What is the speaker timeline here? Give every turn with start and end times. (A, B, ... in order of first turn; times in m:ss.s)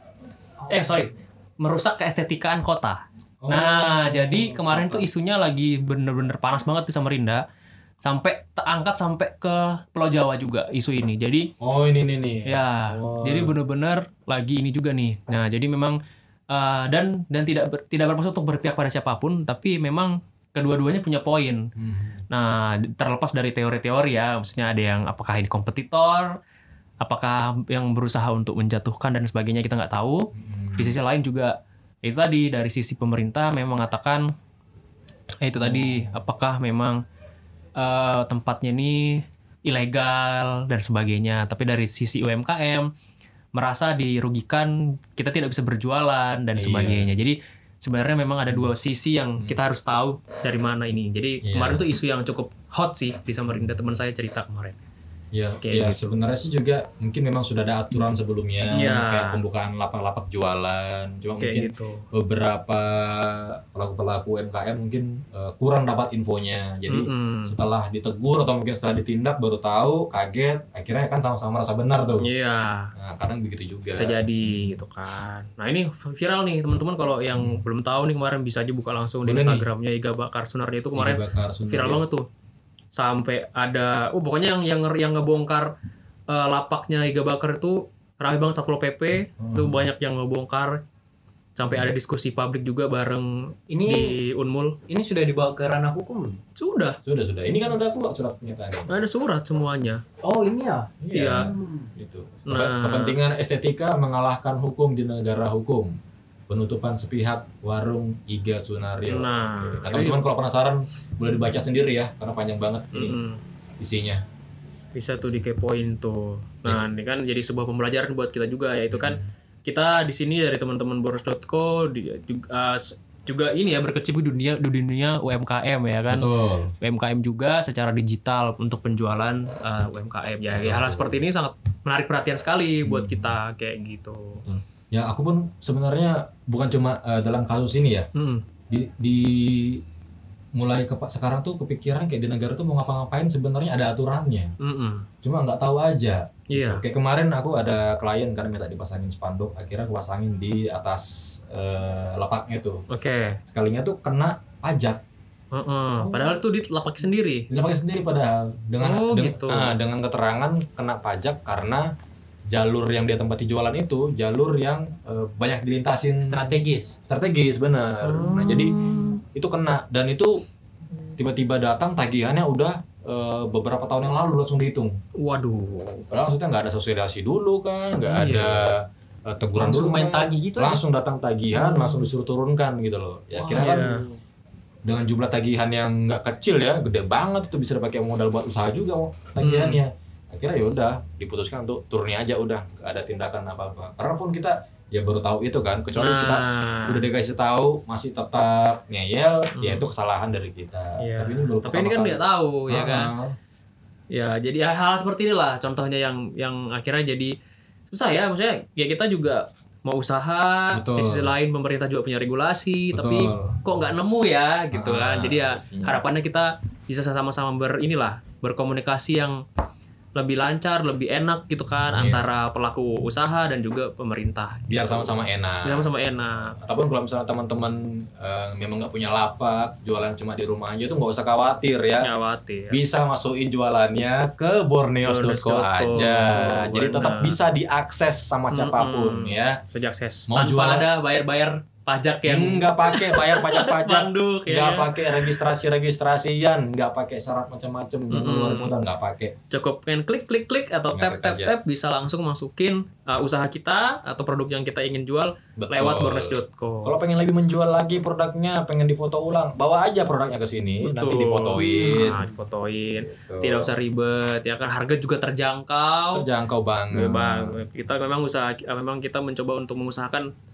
0:00.7-0:07.4 A
0:03.4-0:05.0 B
0:08.0-0:11.5 A
0:11.6-0:13.5 B
0:12.4-0:16.0 A
0:16.5-0:21.7 A
0:21.8-0:22.2 B
0:22.3-0:26.3 A
0:27.0-0:34.3 A
0:30.3-0:30.9 B
0:35.4-0:37.0 A
0:35.6-0:36.2 B
0:37.8-0:42.9 A
0:43.5-0:54.7 A
0:46.6-0:47.1 B
0:51.4-0:51.8 B
0:55.3-1:12.3 B
0:55.6-0:56.0 A
0:58.7-0:59.4 A
1:01.4-1:02.0 A
1:06.9-1:07.5 A
1:12.2-1:12.9 A
1:12.9-1:14.8 B
1:13.9-1:22.2 A
1:17.4-1:17.6 B
1:19.2-1:19.6 B
1:20.9-1:22.0 B
1:22.9-1:25.7 A
1:26.3-1:30.8 A
1:29.4-1:29.9 B
1:31.6-1:34.8 A
1:33.7-1:34.1 C
1:34.9-1:36.4 C
1:36.6-1:37.0 A
1:37.0-1:39.0 B
1:38.9-1:40.0 A
1:40.2-1:40.9 C
1:41.0-1:45.9 B
1:41.1-1:41.5 A
1:41.5-1:41.9 C
1:42.5-1:43.2 A
1:46.5-1:53.2 B
1:49.1-1:50.2 A
1:52.9-1:53.4 A
1:53.8-1:54.2 B
1:54.9-2:06.3 A
1:58.9-1:59.3 B
2:06.1-2:06.7 B
2:06.8-2:14.4 A
2:10.5-2:11.2 B
2:12.8-2:13.4 B
2:14.4-2:18.1 B
2:18.1-2:18.4 A
2:18.7-2:19.8 B
2:20.5-2:24.5 B
2:24.6-2:25.0 A
2:25.2-2:32.8 B
2:26.5-2:26.8 A
2:32.9-2:33.4 A
2:33.4-2:35.0 B
2:35.5-2:37.5 A
2:37.5-2:41.9 B
2:38.8-2:39.7 A
2:42.5-2:48.8 B
2:46.2-2:47.0 C
2:48.0-2:49.2 A
2:49.3-2:50.4 B
2:51.2-2:55.0 B
2:55.2-2:56.1 A
2:56.1-3:03.9 B
2:58.1-2:58.7 A
2:59.6-3:00.8 C
3:01.6-3:02.0 A
3:03.3-3:04.1 C
3:03.5-3:04.1 A
3:04.8-3:23.4 B
3:09.4-3:09.8 A
3:16.0-3:17.0 A
3:19.6-3:19.8 A
3:21.0-3:23.1 A
3:24.1-3:27.4 A
3:27.9-3:39.4 A
3:30.7-3:31.3 B
3:32.9-3:33.6 B
3:34.7-3:36.0 B
3:40.1-3:44.9 A
3:41.9-3:42.2 B
3:44.7-3:45.9 B
3:45.6-3:46.5 A
3:46.5-3:52.1 B
3:52.0-3:52.8 A
3:52.7-3:59.6 B
3:55.0-3:57.4 A
3:58.5-4:04.9 A
4:00.3-4:00.9 B
4:02.3-4:09.3 B
4:08.1-4:08.7 A
4:09.5-4:16.9 A
4:10.9-4:11.5 B
4:15.6-4:22.3 B
4:20.8-4:26.2 A
4:23.0-4:23.7 B
4:26.1-4:27.6 B
4:26.9-4:30.3 A